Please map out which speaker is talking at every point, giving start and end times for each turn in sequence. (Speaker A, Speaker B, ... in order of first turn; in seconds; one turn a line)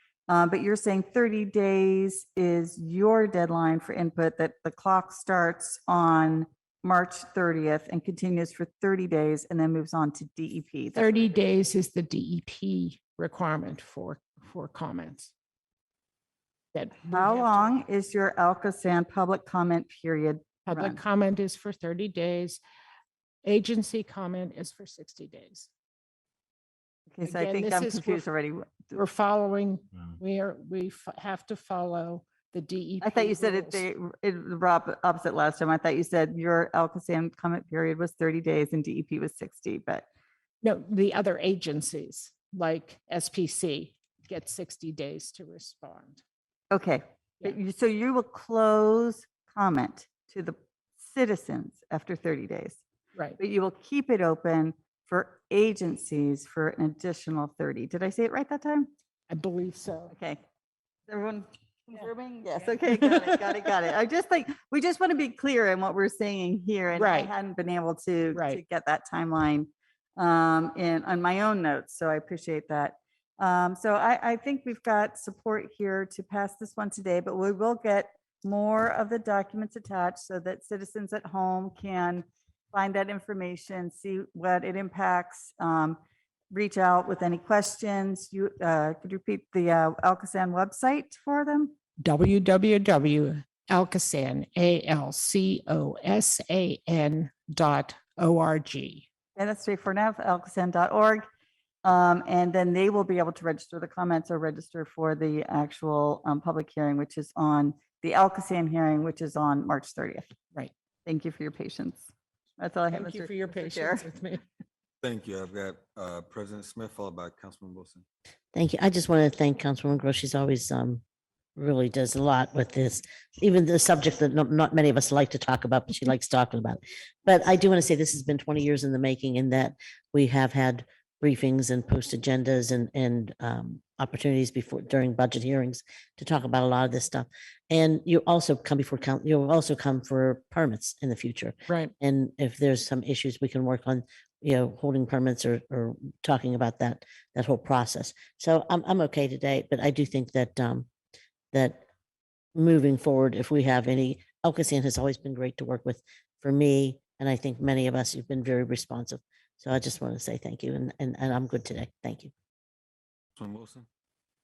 Speaker A: 0.3-11.1
Speaker B: 10.9-15.3
Speaker B: 16.7-17.7
Speaker A: 17.1-21.0
Speaker B: 20.7-22.6
Speaker B: 23.4-25.7
Speaker A: 27.1-29.0
Speaker B: 27.2-28.2
Speaker B: 28.9-33.9
Speaker A: 33.0-40.0
Speaker B: 40.6-46.2
Speaker A: 46.7-52.8
Speaker A: 53.4-58.9
Speaker B: 59.3-60.1
Speaker A: 60.1-60.4
Speaker A: 61.1-86.0
Speaker B: 66.9-67.3
Speaker B: 68.3-68.6
Speaker A: 86.5-91.7
Speaker B: 92.0-99.0
Speaker A: 99.3-101.2
Speaker A: 101.8-110.3
Speaker A: 111.0-112.0
Speaker A: 112.6-114.0
Speaker B: 112.9-114.4
Speaker C: 115.0-118.0
Speaker D: 118.5-121.0
Speaker D: 121.6-150.9
Speaker D: 151.5-151.8
Speaker D: 152.5-162.3
Speaker C: 163.4-163.8